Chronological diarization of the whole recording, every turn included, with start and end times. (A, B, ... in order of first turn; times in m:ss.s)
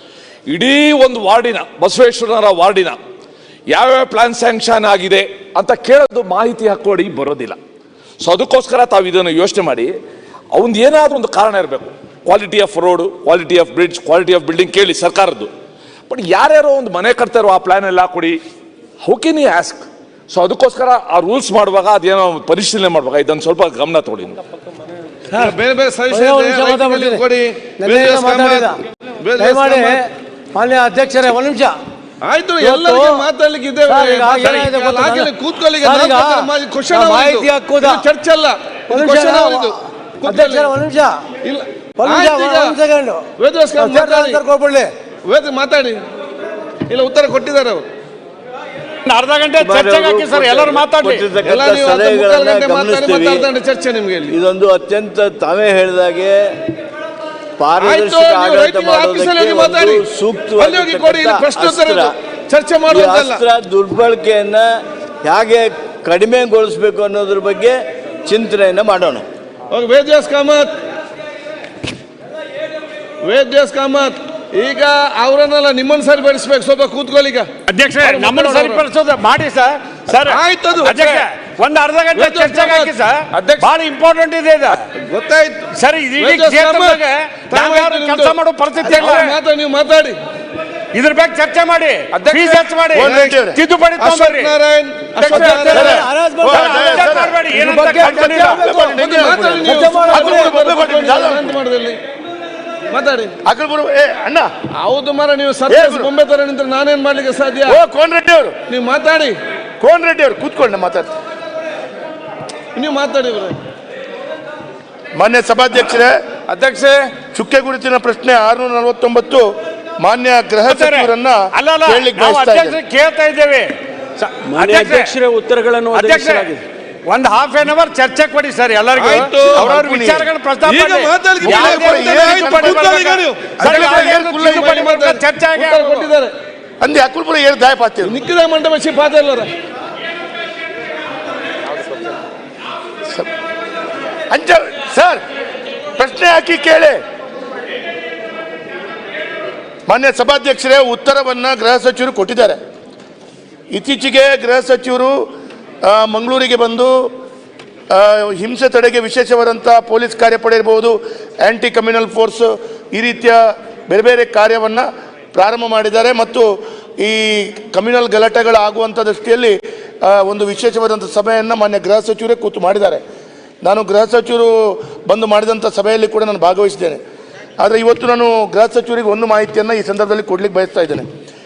0:00.5-0:03.0 A
0:03.7-0:07.6 A
0:08.2-0:09.9 A
0:10.5-0:15.5 A
0:16.1-0:18.4 A
0:19.0-0:24.4 A
0:25.3-0:25.6 B
0:25.4-0:30.0 C
0:26.1-0:27.2 B
0:27.8-0:28.8 B
0:29.4-0:31.7 B
0:32.2-0:40.7 C
0:32.6-0:33.3 B
0:33.9-0:38.1 B
0:38.9-0:41.1 B
0:41.4-0:42.8 C
0:42.0-0:43.2 B
0:43.4-0:44.4 C
0:43.8-0:44.9 B
0:45.3-0:46.0 C
0:46.9-0:47.8 C
0:49.0-0:51.3 D
0:49.6-0:53.5 E
0:51.4-0:54.3 C
0:54.3-0:56.4 E
0:57.6-1:02.1 E
0:57.8-1:00.0 C
1:00.6-1:03.4 C
1:02.9-1:04.7 E
1:05.2-1:09.2 E
1:09.7-1:10.7 C
1:13.2-1:18.8 C
1:17.7-1:24.8 D
1:20.1-1:21.3 C
1:22.1-1:23.7 C
1:25.1-1:30.2 C
1:25.7-1:29.3 D
1:30.9-1:34.6 D
1:32.1-1:33.4 C
1:32.9-1:33.6 F
1:34.0-1:36.0 C
1:35.2-1:40.6 B
1:35.3-1:35.6 D
1:35.6-1:37.5 F
1:36.5-1:38.6 D
1:37.5-1:42.0 C
1:38.6-1:41.5 F
1:42.9-1:43.4 C
1:43.4-1:44.5 F
1:44.8-1:47.8 C
1:45.7-1:46.1 F
1:47.6-1:48.5 F
1:48.7-1:49.4 C
1:49.8-1:51.1 F
1:52.7-1:53.6 C
1:55.2-1:56.1 F
1:56.5-1:57.0 D
1:57.2-1:59.5 F
2:00.0-2:02.8 F
2:00.7-2:05.1 D
2:04.4-2:06.6 B
2:05.9-2:06.5 D
2:07.0-2:16.1 D
2:09.0-2:09.8 C
2:09.6-2:10.3 F
2:10.6-2:16.3 C
2:11.4-2:12.8 F
2:13.6-2:14.9 F
2:16.8-2:18.2 F
2:18.0-2:19.5 C
2:24.3-2:25.2 F
2:26.0-2:27.0 F
2:29.9-2:32.6 F
2:33.7-2:35.3 F
2:35.8-2:37.1 F
2:37.9-2:43.4 F
2:43.9-2:46.5 F
2:47.0-2:53.0 F
2:53.6-2:57.0 F
2:57.6-3:01.0 F